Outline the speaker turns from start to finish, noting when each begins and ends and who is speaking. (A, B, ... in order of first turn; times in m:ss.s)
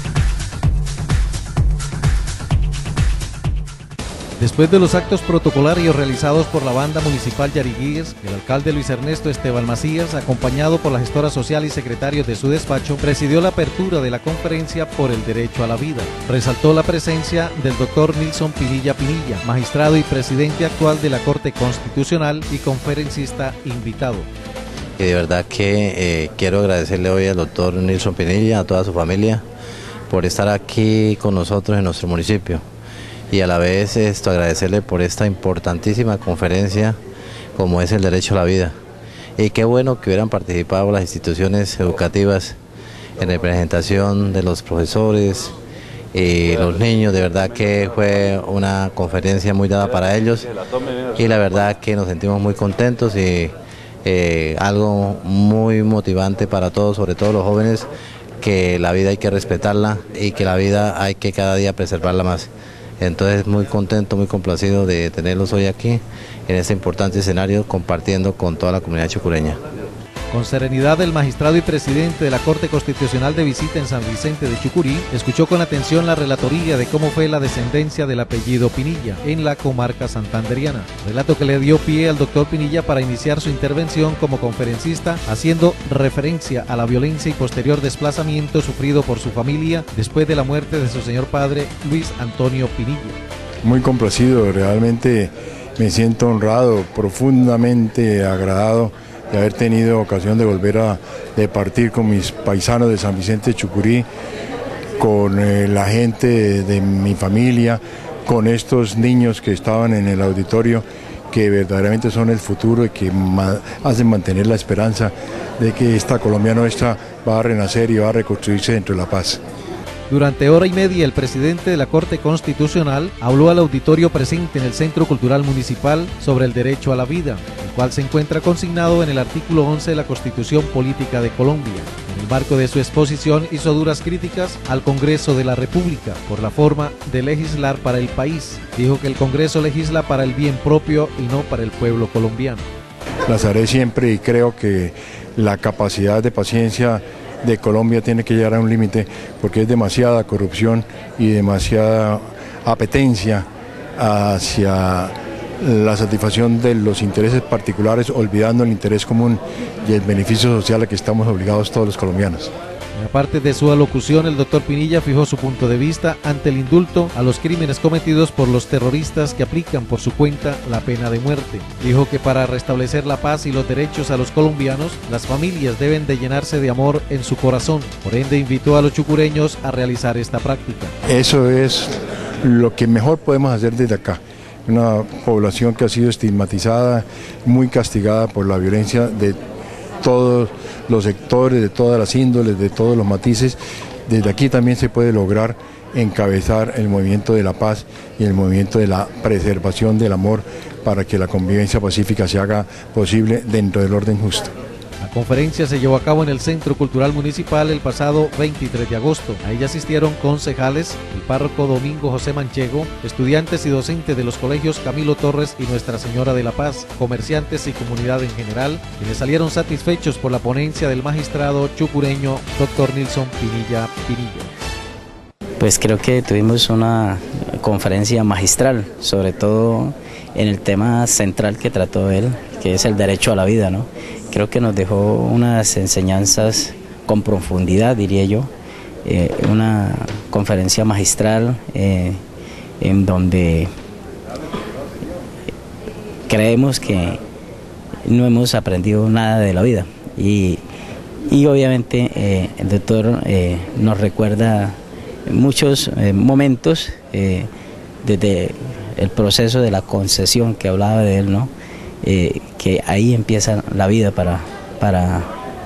0:04.4-0:24.3 A
0:25.0-0:29.4 B
0:30.1-0:32.6 B
0:33.3-0:37.0 B
0:37.6-0:38.8 B
0:39.4-0:42.6 B
0:43.2-0:45.6 B
0:46.1-0:50.5 B
0:51.1-0:57.9 B
0:58.4-1:09.6 B
1:10.3-1:33.2 A
1:33.6-1:44.0 C
1:45.0-1:59.4 C
2:00.1-2:22.6 A
2:23.3-2:33.4 C
2:34.0-2:42.5 C
2:42.9-3:00.9 A
3:01.1-3:01.9 C
3:02.4-3:09.3 C
3:10.0-3:13.5 C
3:14.1-3:24.4 C
3:25.0-3:44.5 A
3:45.6-3:58.5 D
3:59.1-4:02.1 D
4:02.8-4:03.7 D
4:06.3-4:07.2 D
4:08.1-4:10.6 D
4:11.3-4:14.7 D
4:15.3-4:17.5 D
4:18.1-4:21.5 D
4:22.1-4:25.3 D